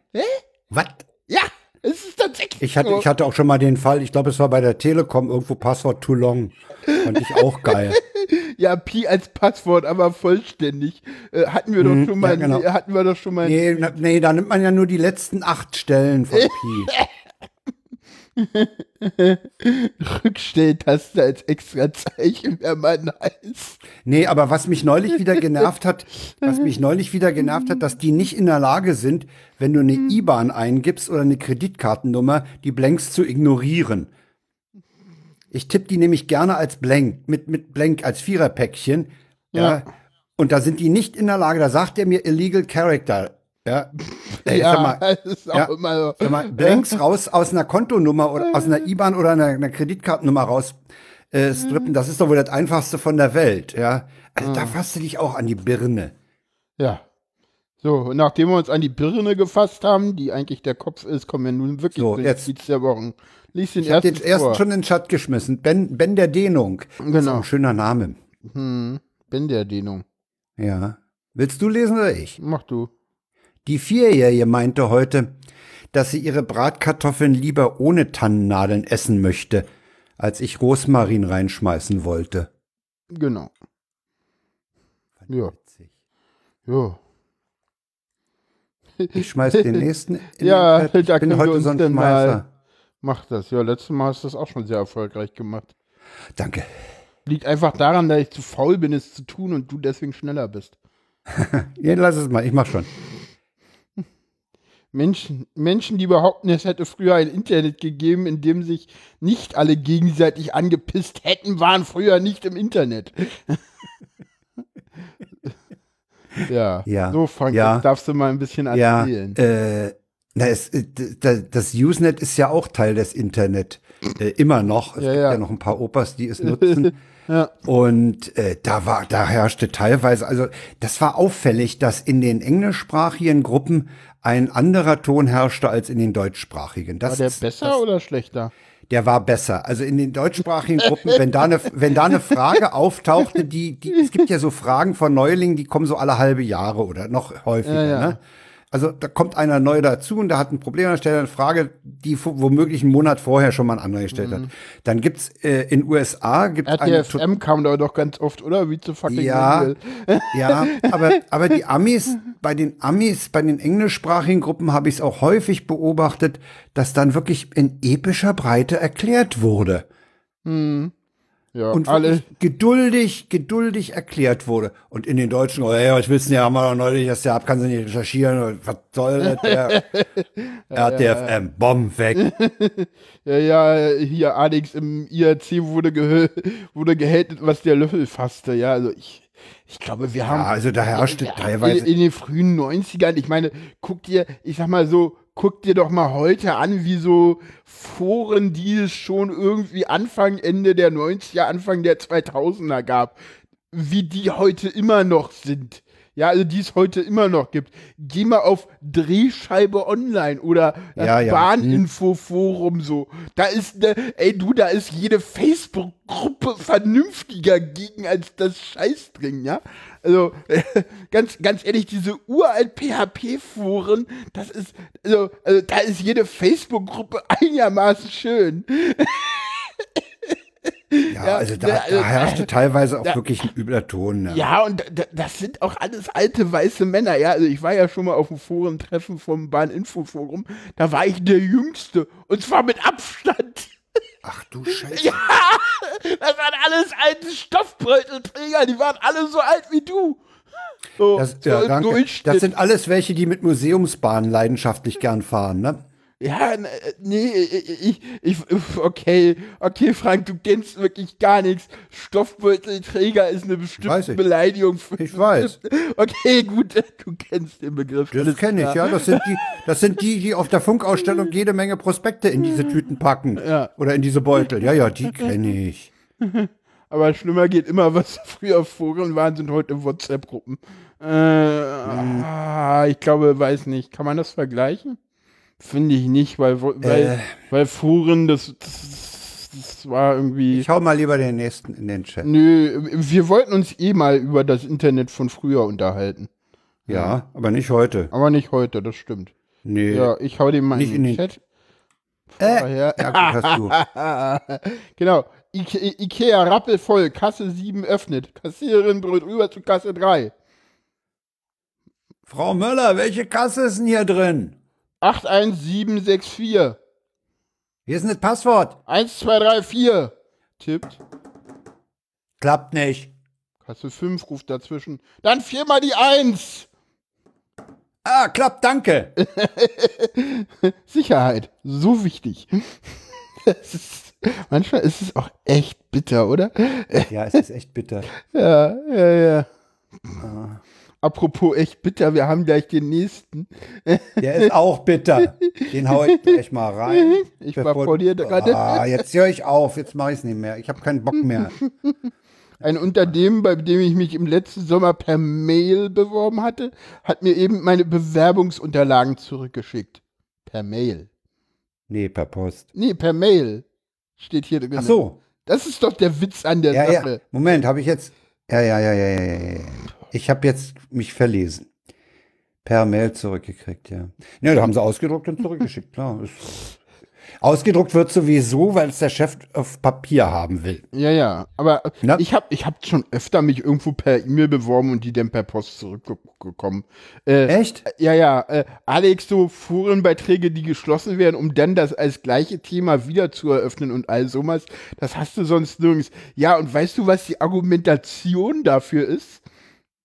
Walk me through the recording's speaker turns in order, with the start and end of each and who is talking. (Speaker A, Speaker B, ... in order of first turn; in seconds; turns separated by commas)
Speaker A: 0.1-0.4, Speaker B: 0.7-1.1, Speaker A: 1.3-3.1, Speaker B: 2.6-8.0, Speaker A: 6.9-13.7, Speaker B: 11.8-12.7, Speaker B: 13.4-16.9, Speaker A: 16.3-17.1, Speaker A: 18.4-23.8, Speaker B: 24.0-34.1, Speaker B: 35.5-43.9, Speaker A: 39.5-39.8, Speaker A: 44.2-46.9, Speaker B: 44.5-50.8, Speaker A: 48.4-48.8, Speaker B: 51.3-56.1, Speaker A: 54.4-54.8, Speaker A: 57.8-64.6, Speaker B: 62.0-62.5, Speaker B: 63.8-68.2, Speaker A: 67.0-67.5, Speaker A: 68.5-70.0, Speaker B: 70.6-72.4, Speaker A: 72.4-72.9, Speaker B: 73.7-75.4, Speaker B: 75.9-79.7, Speaker B: 80.2-82.5, Speaker A: 83.1-83.5, Speaker A: 85.3-85.5, Speaker B: 85.5-85.9, Speaker A: 86.7-87.0, Speaker A: 89.0-89.8, Speaker B: 89.2-92.5, Speaker A: 90.4-92.4, Speaker A: 93.0-95.7, Speaker B: 96.3-96.7, Speaker A: 97.3-100.7, Speaker B: 101.3-102.9, Speaker A: 104.9-113.6, Speaker A: 116.5-119.4, Speaker B: 116.9-117.9, Speaker B: 118.7-126.9, Speaker A: 125.0-125.4, Speaker A: 126.4-127.5, Speaker B: 127.6-137.8, Speaker A: 137.1-138.5, Speaker B: 138.9-148.2, Speaker A: 140.8-141.2, Speaker A: 147.7-148.2, Speaker B: 148.7-157.2, Speaker A: 154.1-154.5, Speaker A: 156.7-161.2, Speaker B: 159.1-159.7, Speaker B: 160.3-169.9, Speaker A: 170.4-170.9, Speaker A: 171.5-172.2, Speaker B: 171.7-179.8, Speaker A: 179.2-181.3, Speaker B: 180.7-182.3, Speaker A: 182.2-203.2, Speaker B: 190.3-191.9, Speaker A: 203.7-230.3, Speaker B: 211.0-211.8, Speaker A: 230.9-232.5, Speaker B: 231.1-234.4, Speaker A: 234.3-243.7, Speaker B: 244.2-245.3, Speaker A: 244.9-250.2, Speaker A: 251.0-252.5, Speaker B: 251.2-255.8, Speaker A: 256.2-269.5, Speaker B: 263.8-264.2, Speaker B: 265.0-265.6, Speaker B: 268.1-275.9, Speaker A: 273.4-273.7, Speaker A: 276.2-285.0, Speaker B: 281.9-282.3, Speaker A: 285.6-290.7, Speaker B: 286.8-287.3, Speaker B: 290.5-292.3, Speaker A: 292.2-296.3, Speaker A: 296.9-297.1, Speaker B: 296.9-298.1, Speaker A: 298.1-299.3, Speaker B: 299.6-300.1, Speaker A: 299.9-301.4, Speaker B: 300.7-301.2, Speaker A: 302.4-310.3, Speaker B: 302.4-303.8, Speaker B: 312.3-314.6, Speaker A: 315.0-316.8, Speaker B: 317.9-318.8, Speaker A: 318.9-321.0, Speaker B: 322.4-323.1, Speaker A: 323.6-326.7, Speaker B: 328.0-329.1, Speaker A: 329.2-337.1, Speaker B: 337.1-338.1, Speaker A: 338.3-339.5, Speaker B: 340.2-340.6, Speaker A: 341.0-344.5, Speaker B: 344.2-351.6, Speaker A: 345.5-349.0, Speaker A: 352.6-361.1, Speaker B: 361.9-362.7, Speaker A: 362.8-363.6, Speaker A: 364.2-367.2, Speaker B: 364.8-365.2, Speaker B: 366.7-371.7, Speaker B: 372.6-376.6, Speaker B: 377.4-380.9, Speaker A: 380.9-399.4, Speaker B: 387.5-387.8